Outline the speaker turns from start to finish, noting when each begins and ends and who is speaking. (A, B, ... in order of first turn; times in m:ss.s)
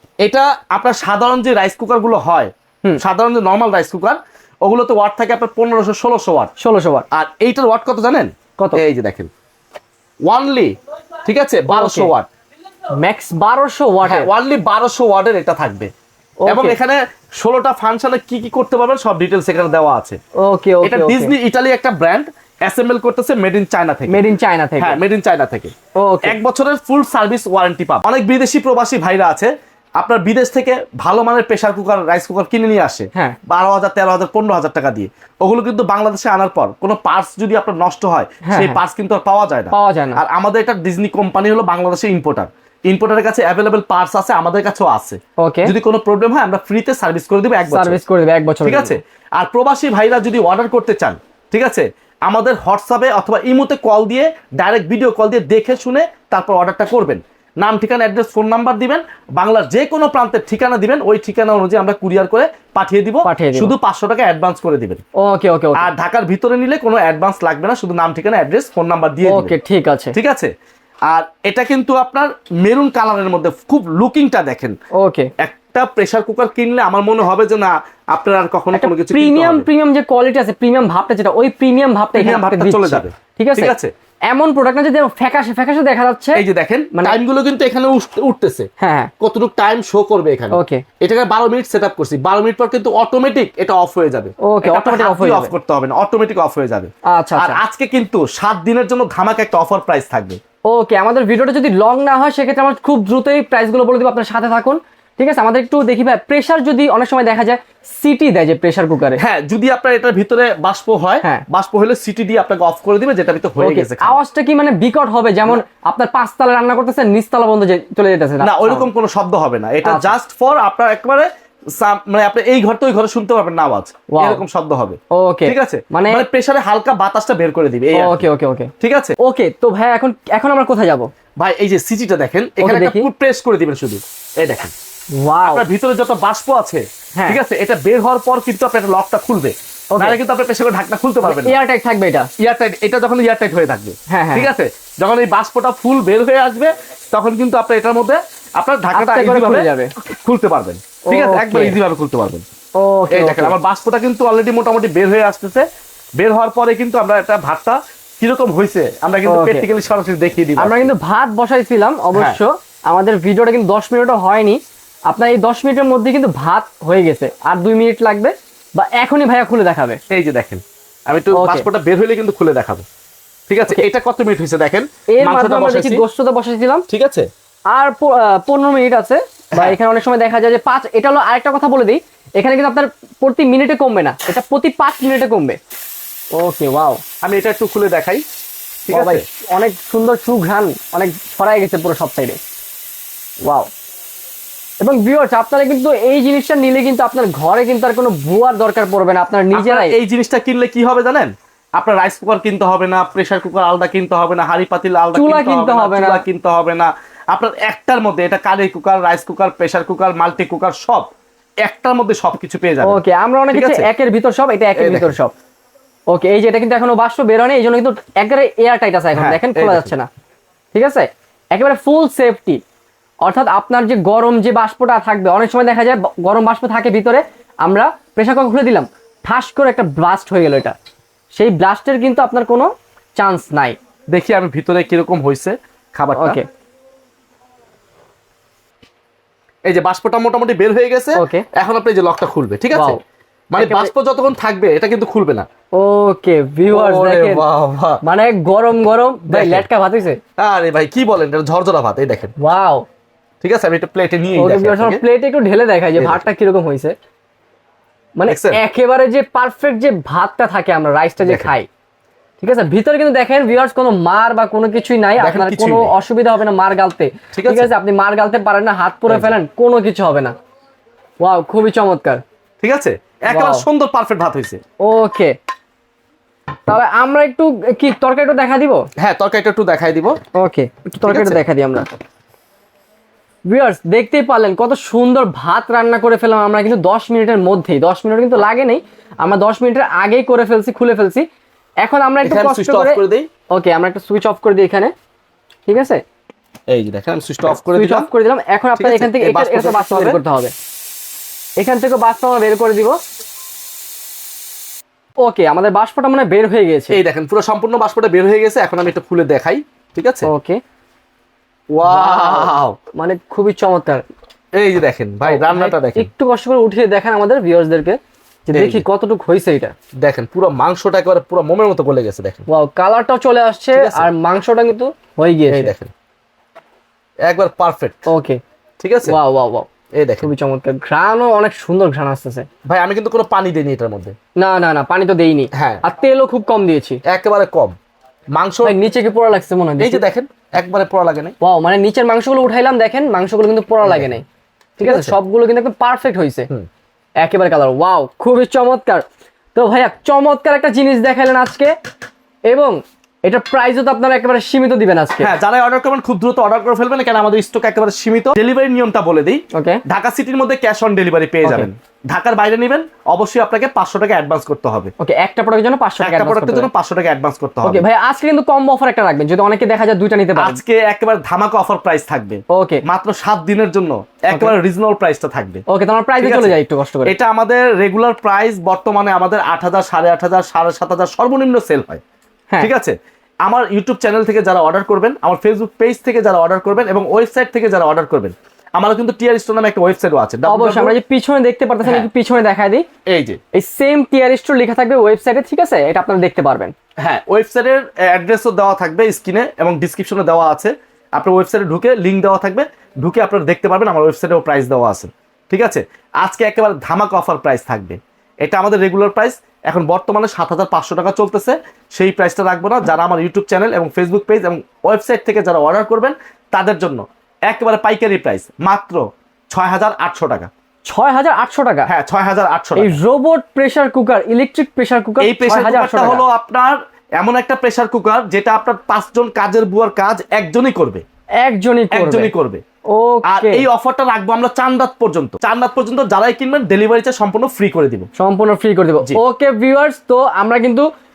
0:00.2-0:06.5 A
0:06.6-0:07.1 B
0:07.1-0:09.3 A
0:10.3-0:12.3 A
0:11.7-0:12.1 B
0:12.9-0:14.3 B
0:14.0-0:15.9 A
0:16.4-0:16.8 B
0:16.5-0:20.2 A
0:20.4-0:21.3 B
0:20.8-0:24.2 A
0:24.1-0:25.0 B
0:24.8-0:25.7 A
0:26.0-0:26.3 B
0:26.2-0:48.0 A
0:38.4-0:38.8 B
0:39.7-0:40.2 B
0:45.4-0:45.7 B
0:47.7-0:49.0 B
0:48.6-1:05.0 A
1:03.2-1:03.7 B
1:05.2-1:05.9 B
1:05.7-1:09.6 A
1:09.2-1:10.1 B
1:10.1-1:10.5 A
1:11.1-1:14.8 A
1:14.9-1:15.3 B
1:15.4-1:19.7 A
1:18.7-1:23.7 B
1:22.1-1:23.9 A
1:24.3-1:26.4 B
1:26.3-1:28.7 A
1:26.9-1:27.2 B
1:28.8-1:29.1 B
1:29.2-1:40.4 A
1:30.5-1:30.8 B
1:34.4-1:35.5 B
1:37.1-1:37.6 B
1:40.7-1:49.2 B
1:49.2-1:54.2 A
1:53.6-1:58.9 B
1:58.4-2:08.3 A
1:59.8-2:00.1 B
2:04.1-2:04.4 B
2:05.1-2:06.2 B
2:07.9-2:11.1 B
2:08.8-2:09.2 A
2:11.4-2:14.7 A
2:12.6-2:13.1 B
2:15.2-2:15.6 B
2:15.4-2:21.6 A
2:19.9-2:20.2 B
2:21.2-2:22.3 B
2:22.4-2:32.4 A
2:24.1-2:24.5 B
2:28.9-2:29.9 B
2:31.1-2:31.8 B
2:32.8-2:33.5 B
2:33.1-2:35.6 A
2:36.2-2:40.9 A
2:39.2-2:39.7 B
2:40.6-2:50.0 B
2:50.1-2:52.8 A
2:51.3-2:51.7 B
2:53.5-2:56.0 A
2:55.1-2:56.8 B
2:56.9-2:57.3 A
2:57.7-3:05.6 B
3:06.3-3:07.0 B
3:07.2-3:08.2 A
3:08.9-3:09.2 A
3:08.9-3:12.4 B
3:13.4-3:13.7 B
3:14.8-3:20.0 B
3:19.5-3:31.1 A
3:25.1-3:26.2 B
3:31.6-3:33.0 A
3:32.8-3:35.3 B
3:33.5-3:33.9 A
3:34.8-3:35.1 A
3:36.1-3:40.1 B
3:39.1-3:39.9 A
3:40.7-3:42.6 B
3:43.2-3:50.8 B
3:51.3-3:53.8 B
3:54.1-3:56.4 A
3:56.2-3:56.5 B
3:59.6-4:03.0 A
4:01.1-4:01.5 B
4:02.7-4:03.0 B
4:03.5-4:05.5 A
4:03.6-4:03.9 B
4:05.7-4:07.4 B
4:06.7-4:08.0 A
4:08.0-4:10.2 B
4:09.3-4:09.6 A
4:10.4-4:12.3 A
4:12.4-4:12.8 B
4:13.4-4:15.0 A
4:14.4-4:16.9 B
4:18.2-4:21.7 B
4:18.3-4:18.6 A
4:21.2-4:21.5 A
4:22.4-4:30.4 B
4:25.2-4:25.9 A
4:27.3-4:27.7 A
4:29.1-4:29.3 A
4:31.2-4:32.2 B
4:32.6-4:34.6 A
4:33.3-4:33.6 B
4:34.8-4:35.4 B
4:36.7-4:38.8 B
4:39.0-4:40.2 A
4:40.3-4:41.9 B
4:41.0-4:41.4 A
4:43.5-4:51.2 B
4:51.8-4:53.0 B
4:52.2-4:53.3 A
4:53.5-4:54.9 B
4:55.6-4:56.0 B
4:56.7-4:58.1 A
4:57.7-5:00.5 B
4:58.8-5:00.2 A
5:01.6-5:03.0 B
5:05.2-5:07.0 B
5:06.9-5:10.3 A
5:10.2-5:10.6 B
5:11.7-5:12.8 A
5:11.8-5:14.0 B
5:14.6-5:16.1 A
5:15.2-5:19.7 B
5:18.5-5:18.8 A
5:20.0-5:22.4 A
5:22.5-5:25.7 B
5:23.8-5:24.1 A
5:25.5-5:25.9 A
5:27.2-5:28.0 A
5:28.1-5:28.4 B
5:28.8-5:29.2 A
5:29.0-5:29.7 B
5:30.0-5:30.3 A
5:30.2-5:32.5 B
5:32.6-5:34.2 A
5:34.4-5:37.0 B
5:35.5-5:35.8 A
5:37.0-5:37.8 A
5:38.4-5:38.8 A
5:38.6-5:40.0 B
5:39.8-5:41.3 A
5:41.4-5:44.2 B
5:43.8-5:44.1 A
5:44.8-5:45.2 A
5:44.8-5:46.5 B
5:47.2-5:49.0 B
5:49.5-5:51.7 B
5:52.5-5:55.3 B
5:55.2-6:04.9 A
5:59.5-5:59.8 B
6:01.4-6:01.7 B
6:05.0-6:06.7 B
6:06.0-6:07.8 A
6:07.6-6:10.6 B
6:10.4-6:15.6 A
6:12.5-6:12.8 B
6:14.3-6:14.6 B
6:15.7-6:17.1 B
6:16.2-6:22.0 A
6:22.6-6:22.9 A
6:23.4-6:31.0 A
6:30.5-6:32.8 B
6:33.1-6:33.4 A
6:33.5-6:36.7 B
6:37.0-6:59.0 A
6:59.5-7:00.5 A
7:00.9-7:01.9 B
7:01.9-7:03.0 A
7:02.8-7:06.2 B
7:05.2-7:11.0 A
7:11.4-7:12.3 B
7:11.9-7:12.6 A
7:12.9-7:13.7 B
7:13.2-7:18.1 A
7:18.2-7:20.9 B